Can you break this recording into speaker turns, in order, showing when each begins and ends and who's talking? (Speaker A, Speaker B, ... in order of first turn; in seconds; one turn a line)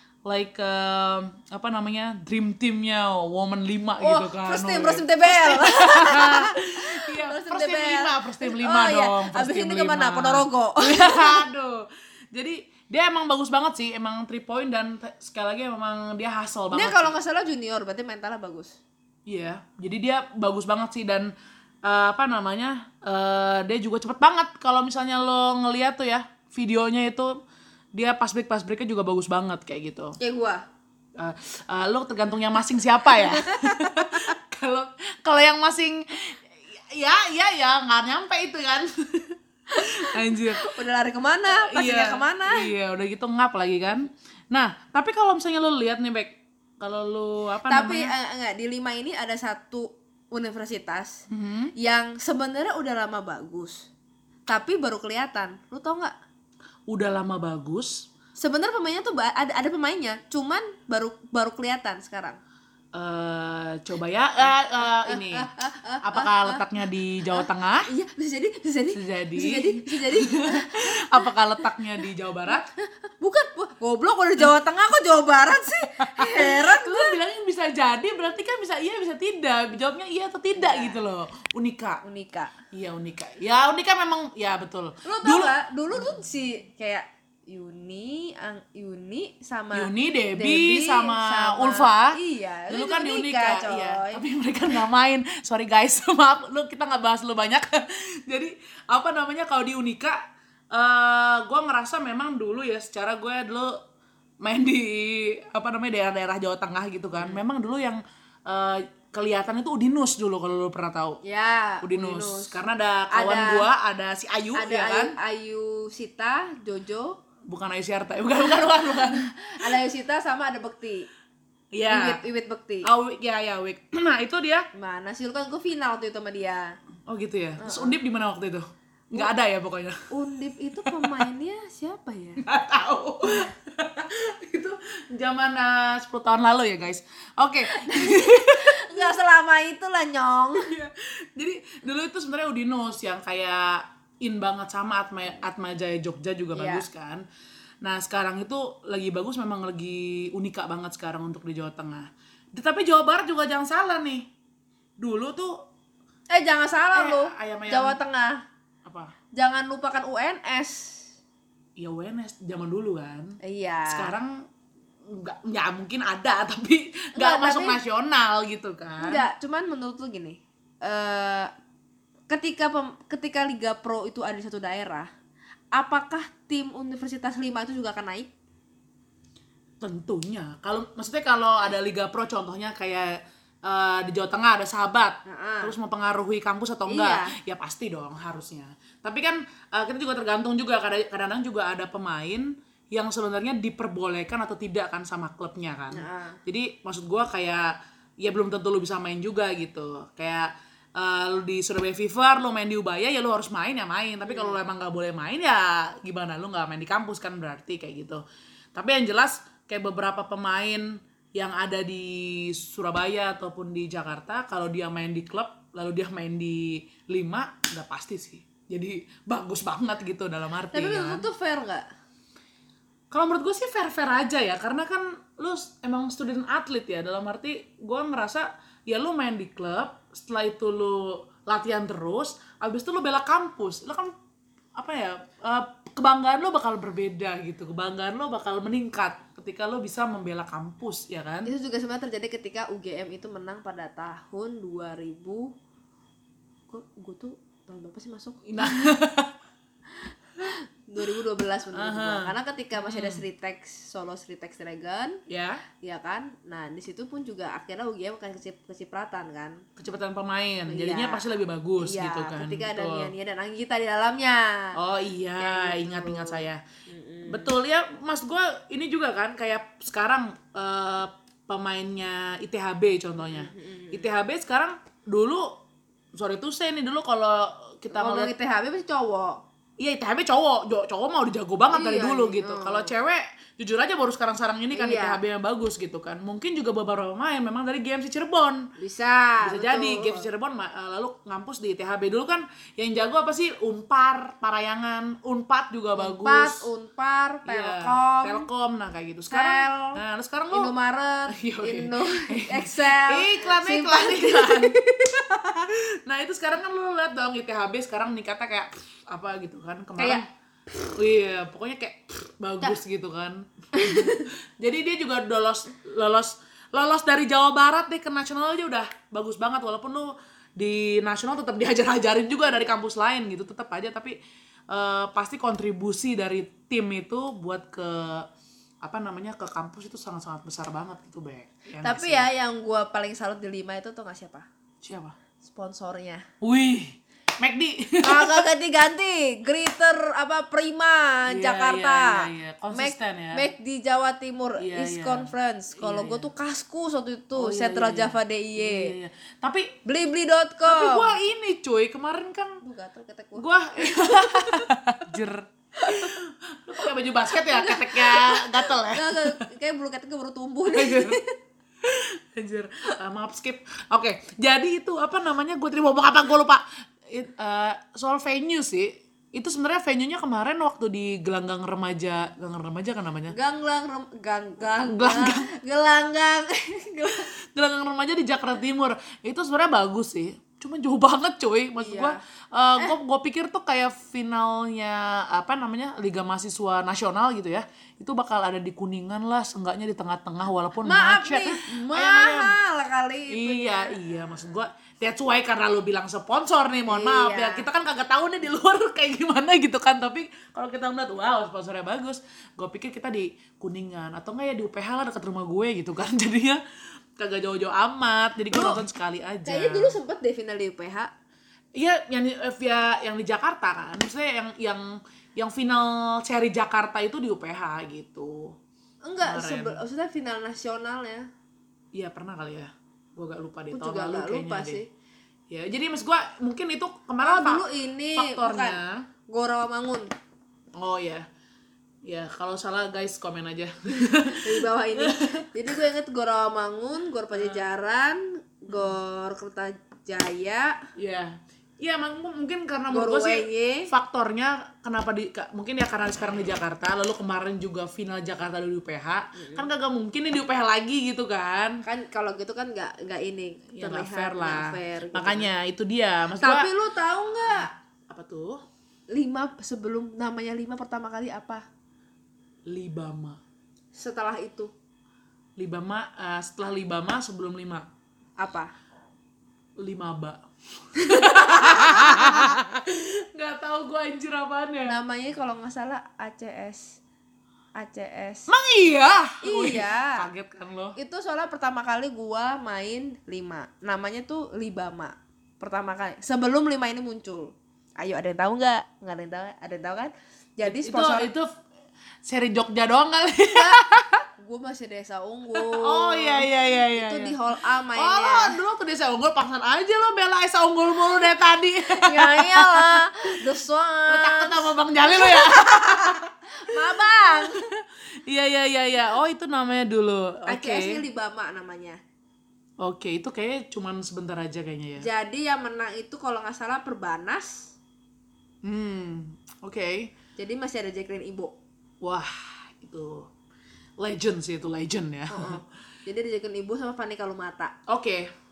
Speaker A: 0.2-17.1
Speaker B: 4.0-11.4
Speaker B: 16.7-18.8
Speaker A: 19.2-21.3
Speaker A: 21.8-27.3
Speaker A: 27.9-30.2
Speaker B: 30.2-30.6
Speaker A: 31.1-40.7
Speaker B: 33.1-34.3
Speaker B: 39.7-42.7
Speaker A: 41.5-48.1
Speaker B: 47.7-51.2
Speaker A: 51.3-51.7
Speaker B: 51.8-53.9
Speaker B: 54.5-56.1
Speaker A: 56.9-58.1
Speaker B: 58.4-62.4
Speaker A: 62.9-65.5
Speaker B: 64.4-66.6
Speaker A: 66.0-67.9
Speaker B: 67.3-71.3
Speaker A: 68.9-72.7
Speaker B: 72.5-77.2
Speaker A: 76.0-82.0
Speaker B: 80.5-81.0
Speaker B: 82.0-82.5
Speaker A: 82.7-86.1
Speaker B: 85.0-94.2
Speaker A: 89.7-92.2
Speaker A: 92.7-100.2
Speaker A: 100.7-103.8
Speaker A: 104.4-111.2
Speaker B: 107.2-107.4
Speaker B: 111.2-112.6
Speaker A: 111.8-115.2
Speaker B: 113.1-113.7
Speaker B: 114.5-117.2
Speaker A: 117.5-119.8
Speaker B: 118.5-121.1
Speaker A: 121.7-122.2
Speaker B: 121.9-122.9
Speaker A: 122.8-124.7
Speaker B: 124.7-126.8
Speaker A: 127.1-130.0
Speaker B: 127.6-128.0
Speaker B: 130.1-132.4
Speaker A: 130.7-131.3
Speaker A: 132.4-139.0
Speaker B: 137.7-140.7
Speaker A: 140.6-147.2
Speaker B: 146.5-146.8
Speaker A: 147.8-154.3
Speaker A: 155.0-155.6
Speaker B: 156.3-158.4
Speaker A: 156.9-158.0
Speaker A: 158.8-159.1
Speaker B: 159.3-161.1
Speaker A: 161.8-164.4
Speaker B: 163.4-164.1
Speaker A: 165.1-169.2
Speaker B: 167.2-167.8
Speaker B: 169.0-171.5
Speaker B: 172.3-175.1
Speaker B: 175.7-178.3
Speaker A: 179.8-208.2
Speaker B: 185.2-185.7
Speaker B: 186.9-187.3
Speaker B: 195.9-196.4
Speaker B: 204.2-204.6
Speaker A: 208.7-221.2
Speaker B: 220.7-221.8
Speaker A: 223.1-234.1
Speaker A: 234.7-241.5
Speaker B: 241.4-245.5
Speaker B: 246.7-248.9
Speaker A: 248.4-249.3
Speaker B: 250.4-255.2
Speaker A: 251.7-253.2
Speaker A: 255.3-255.6
Speaker B: 255.8-259.6
Speaker A: 259.8-263.1
Speaker B: 260.7-264.8
Speaker A: 264.7-266.6
Speaker B: 265.4-267.5
Speaker A: 267.3-275.6
Speaker B: 273.2-274.1
Speaker A: 276.1-278.3
Speaker B: 277.9-279.4
Speaker A: 279.8-288.7
Speaker B: 281.7-282.9
Speaker B: 284.7-285.2
Speaker B: 288.8-290.3
Speaker A: 289.4-296.7
Speaker B: 295.9-298.4
Speaker A: 297.4-300.7
Speaker B: 299.3-305.7
Speaker A: 301.3-304.8
Speaker A: 305.7-310.3
Speaker B: 310.0-310.2
Speaker A: 310.9-324.2
Speaker B: 313.7-314.3
Speaker B: 322.4-322.8
Speaker A: 324.7-328.3
Speaker A: 328.8-332.3
Speaker B: 331.8-334.4
Speaker A: 334.8-335.1
Speaker B: 335.4-336.2
Speaker A: 336.4-338.5
Speaker B: 338.0-348.9
Speaker A: 341.3-343.4
Speaker A: 344.6-346.3
Speaker A: 347.3-349.7
Speaker B: 349.8-351.1
Speaker A: 350.6-352.6
Speaker B: 352.6-354.7
Speaker A: 353.4-359.3
Speaker B: 355.8-356.1
Speaker B: 356.8-361.3
Speaker A: 360.7-361.2
Speaker A: 361.8-373.3
Speaker B: 373.3-377.3
Speaker A: 374.9-375.5
Speaker A: 377.4-392.6
Speaker B: 381.8-382.2
Speaker B: 390.8-394.0
Speaker A: 393.3-406.6
Speaker B: 396.9-397.6
Speaker A: 407.2-409.9
Speaker B: 408.5-408.8
Speaker B: 409.4-411.1
Speaker A: 411.8-418.5
Speaker B: 419.0-421.3
Speaker A: 419.2-419.8
Speaker A: 421.9-424.8
Speaker B: 423.7-424.9
Speaker A: 425.5-429.1
Speaker B: 427.2-430.1
Speaker A: 430.8-431.2
Speaker A: 432.0-435.4
Speaker B: 434.0-440.8
Speaker A: 437.3-437.6
Speaker A: 438.7-439.0
Speaker A: 440.9-451.8
Speaker B: 442.9-443.9
Speaker B: 449.4-449.7
Speaker B: 451.8-455.5
Speaker A: 453.7-456.7
Speaker B: 456.4-457.7
Speaker A: 457.5-458.6
Speaker B: 459.1-461.6
Speaker A: 462.7-463.4
Speaker B: 463.9-464.7
Speaker A: 465.6-467.9
Speaker B: 468.4-468.7
Speaker A: 469.8-470.4
Speaker B: 470.9-472.6
Speaker A: 470.9-474.9
Speaker B: 474.9-477.0
Speaker B: 477.8-478.5
Speaker A: 478.5-480.9
Speaker B: 479.4-480.2
Speaker B: 480.9-491.3
Speaker A: 490.6-491.5
Speaker A: 492.2-494.2
Speaker B: 493.5-493.8
Speaker B: 494.4-498.6
Speaker A: 495.5-497.4
Speaker A: 497.9-503.5
Speaker B: 501.9-507.6
Speaker A: 504.1-511.0
Speaker B: 510.5-512.0
Speaker A: 512.8-515.0
Speaker B: 515.0-517.7
Speaker A: 518.6-520.1
Speaker B: 520.4-521.5
Speaker A: 522.0-523.3
Speaker A: 524.0-525.6
Speaker B: 525.3-527.7
Speaker A: 527.9-528.3